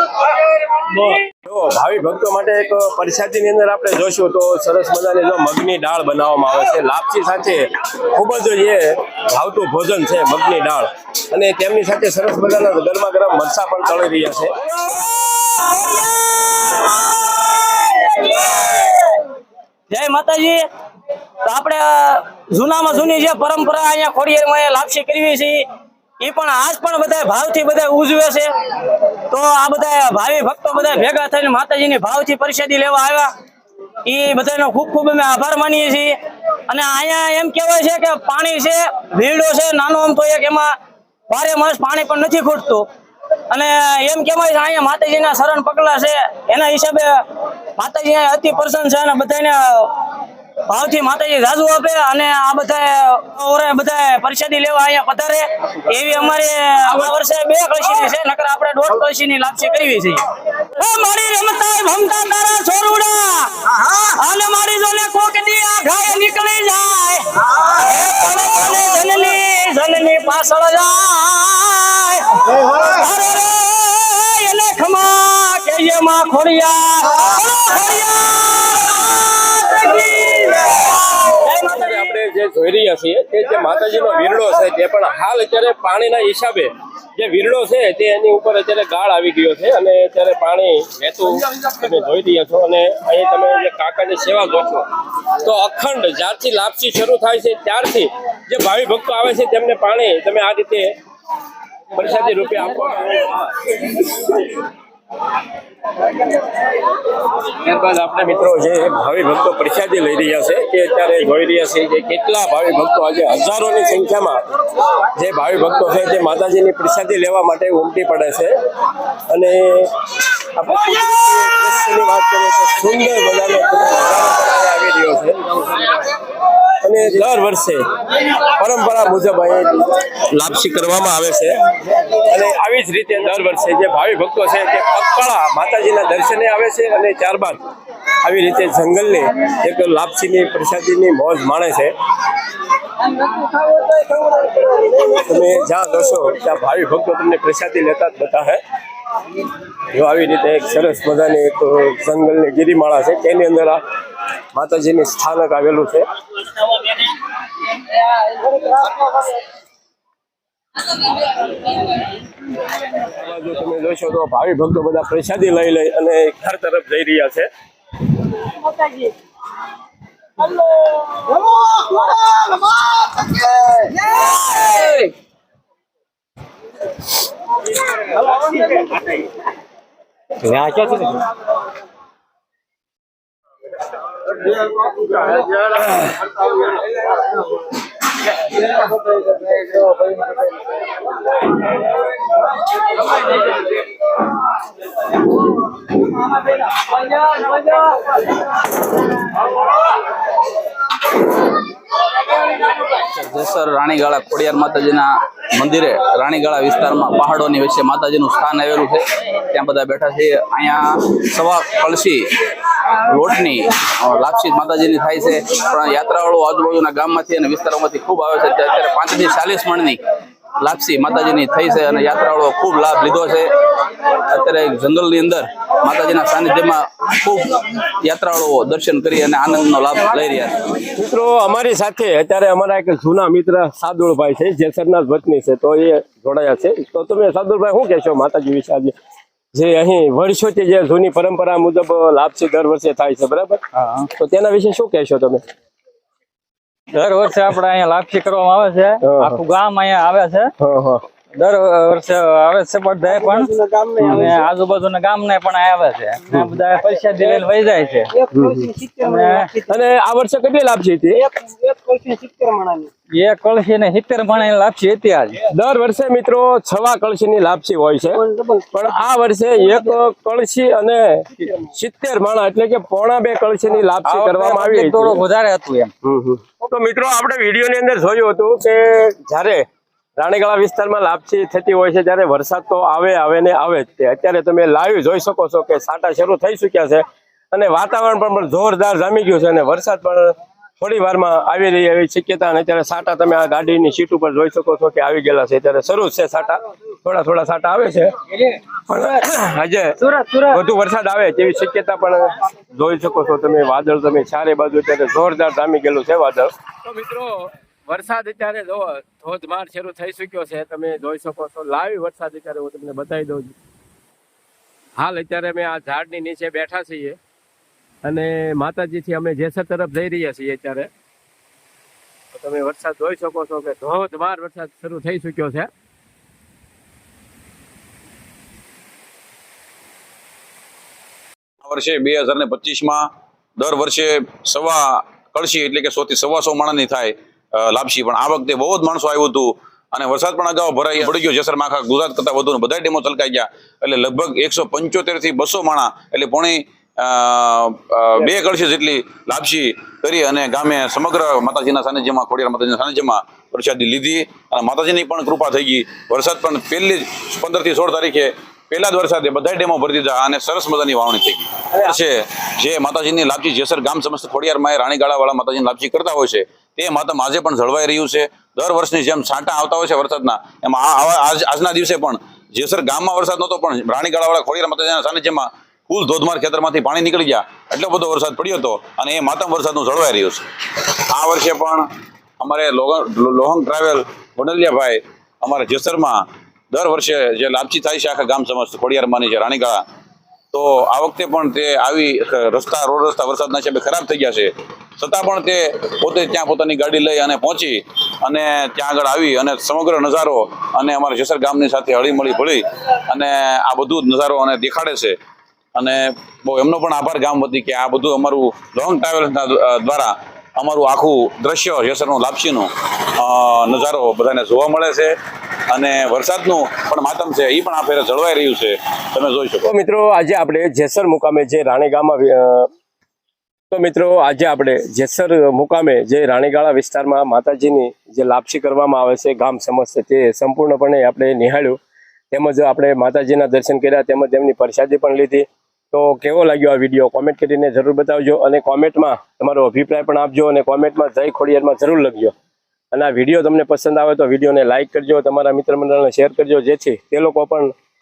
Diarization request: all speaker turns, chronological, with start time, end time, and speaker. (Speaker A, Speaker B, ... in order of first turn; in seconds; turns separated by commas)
Speaker A: 0.9-14.6, Speaker B: 15.4-19.3, Speaker B: 19.9-20.6, Speaker B: 21.4-25.6, Speaker B: 26.2-33.3, Speaker B: 34.1-36.1, Speaker B: 36.7-40.7, Speaker B: 41.3-42.9, Speaker B: 43.5-82.0, Speaker A: 81.6-101.0, Speaker A: 102.0-104.5, Speaker A: 107.4-114.4, Speaker A: 115.0-118.5, Speaker A: 119.3-120.0, Speaker A: 120.5-125.8, Speaker A: 126.8-127.9, Speaker A: 128.4-137.6, Speaker A: 138.2-141.9, Speaker A: 144.7-148.6, Speaker A: 149.9-153.8, Speaker A: 154.5-156.1, Speaker A: 163.0-167.5, Speaker C: 202.9-212.4, Speaker C: 213.0-220.0, Speaker C: 220.6-230.6, Speaker A: 231.0-238.9, Speaker A: 239.5-243.6, Speaker D: 243.7-244.1, Speaker A: 244.2-245.4, Speaker D: 246.9-250.5, Speaker A: 249.0-249.4, Speaker A: 250.6-251.0, Speaker D: 251.4-253.6, Speaker B: 253.4-254.3, Speaker D: 254.2-258.1, Speaker A: 258.3-258.9, Speaker B: 258.8-259.5, Speaker D: 259.0-259.5, Speaker A: 259.7-261.4, Speaker B: 261.6-262.9, Speaker D: 263.1-265.4, Speaker A: 265.5-275.2, Speaker D: 274.1-275.9, Speaker A: 276.0-279.7, Speaker A: 280.2-313.5, Speaker A: 315.0-317.2, Speaker A: 318.0-320.9, Speaker A: 322.3-325.7, Speaker E: 331.6-333.1, Speaker E: 333.6-381.9, Speaker E: 382.4-389.8, Speaker E: 390.5-405.2, Speaker E: 405.8-415.1, Speaker E: 415.7-419.7, Speaker A: 419.6-422.7, Speaker A: 423.7-431.8, Speaker A: 432.3-442.3, Speaker A: 442.9-447.7